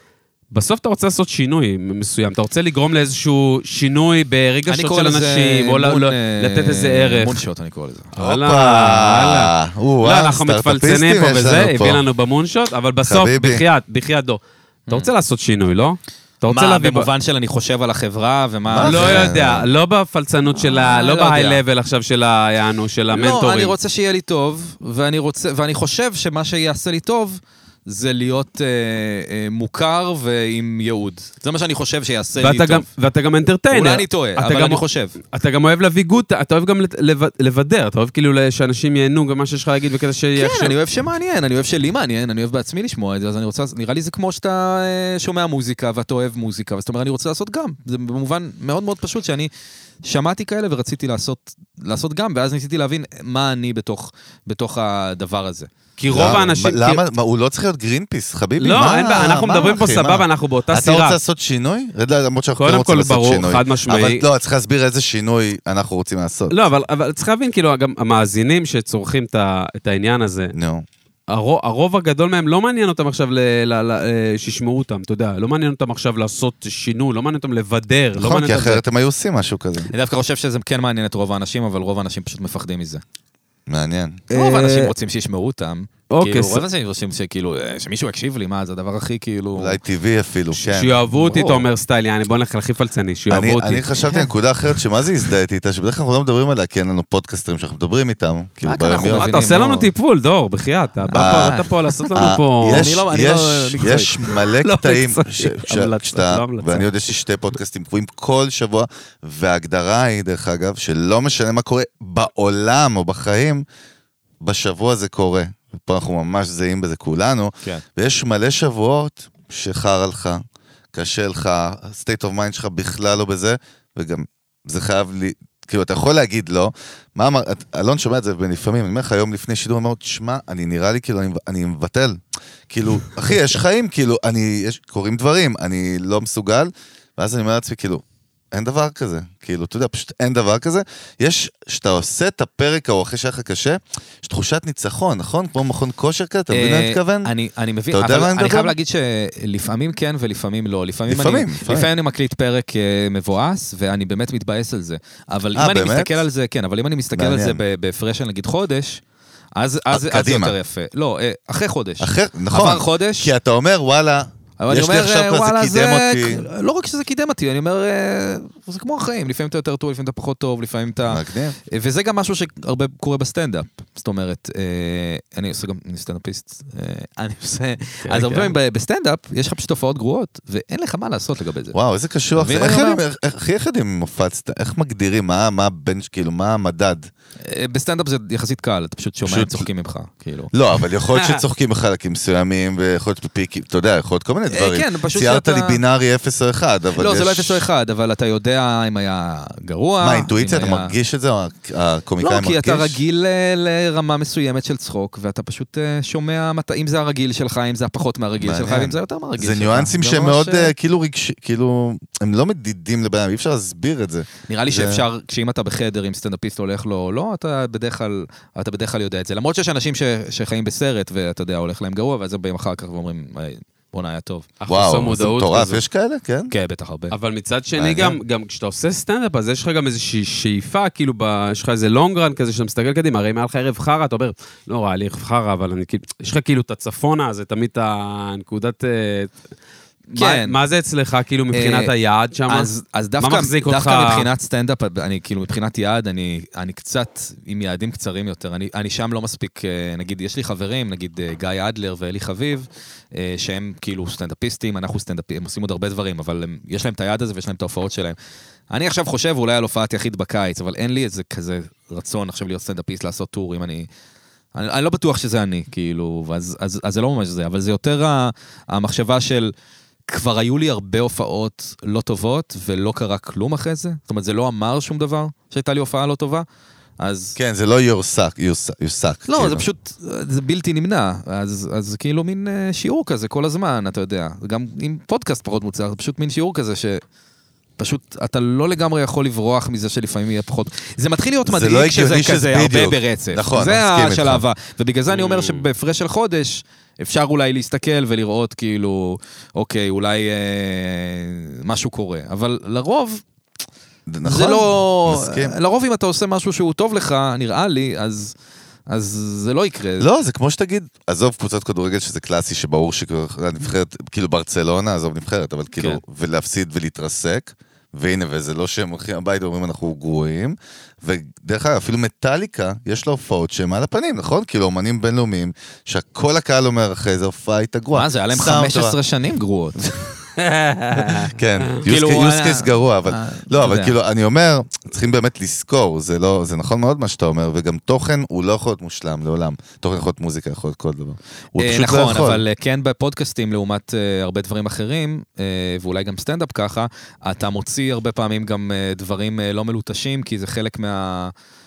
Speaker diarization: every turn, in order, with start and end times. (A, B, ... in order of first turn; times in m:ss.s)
0:00.5-0:07.4 A
0:04.7-0:08.1 B
0:08.2-0:17.1 A
0:08.2-0:12.0 C
0:13.0-0:13.6 C
0:16.5-0:19.3 B
0:18.7-0:19.7 C
0:18.8-0:23.8 A
0:20.6-0:21.6 B
0:23.1-0:32.9 B
0:32.4-0:40.7 A
0:33.7-0:35.2 B
0:40.4-0:49.5 B
0:50.0-0:55.7 B
0:56.0-0:57.0 A
0:56.1-1:06.6 C
0:58.6-1:01.2 A
1:02.6-1:04.2 A
1:06.5-1:10.5 A
1:10.5-1:10.9 C
1:11.3-1:18.8 A
1:18.2-1:19.9 C
1:19.9-1:23.0 B
1:23.7-1:24.2 C
1:24.3-1:24.9 A
1:24.3-1:29.8 B
1:26.1-1:26.6 A
1:29.6-1:31.0 C
1:30.5-1:33.9 A
1:31.1-1:31.6 B
1:33.3-1:39.5 C
1:38.6-1:39.9 B
1:39.1-1:42.9 A
1:41.1-1:44.3 B
1:41.1-1:41.6 C
1:42.1-1:53.6 C
1:44.6-1:46.9 A
1:54.4-2:00.4 C
2:00.9-2:27.3 C
2:26.5-2:39.0 B
2:27.9-2:28.8 C
2:31.1-2:31.9 C
2:35.6-2:36.2 C
2:37.1-2:37.6 C
2:39.6-2:43.3 B
2:39.9-2:40.6 C
2:42.0-2:46.4 C
2:44.6-3:01.8 B
2:51.1-2:51.6 C
2:58.1-2:58.5 A
3:01.7-3:07.1 C
3:02.4-3:03.0 B
3:07.4-3:10.5 B
3:09.2-3:09.7 C
3:10.5-3:17.6 C
3:11.1-3:11.4 A
3:14.5-3:15.8 B
3:17.0-3:20.9 B
3:20.0-3:23.0 C
3:22.2-3:30.7 B
3:28.4-3:35.0 C
3:34.5-3:44.5 B
3:44.6-3:45.8 A
3:44.7-3:46.5 C
3:46.5-3:47.2 B
3:47.1-3:59.3 A
3:47.8-3:48.2 C
4:00.1-4:00.6 B
4:00.2-4:04.3 A
4:01.5-4:01.9 B
4:02.5-4:18.2 B
4:18.7-4:23.9 B
4:24.6-4:29.5 B
4:30.1-4:36.5 B
4:37.0-4:37.4 B
4:37.4-4:39.6 C
4:39.3-4:47.0 B
4:47.8-5:03.2 B
4:51.4-4:54.4 C
4:55.1-4:55.7 A
5:04.1-5:05.5 C
5:04.2-5:08.4 B
5:08.9-5:10.1 B
5:10.0-5:29.0 C
5:27.9-5:30.2 B
5:30.4-5:31.3 A
5:31.3-5:42.4 C
5:31.8-5:34.0 B
5:41.6-5:51.3 B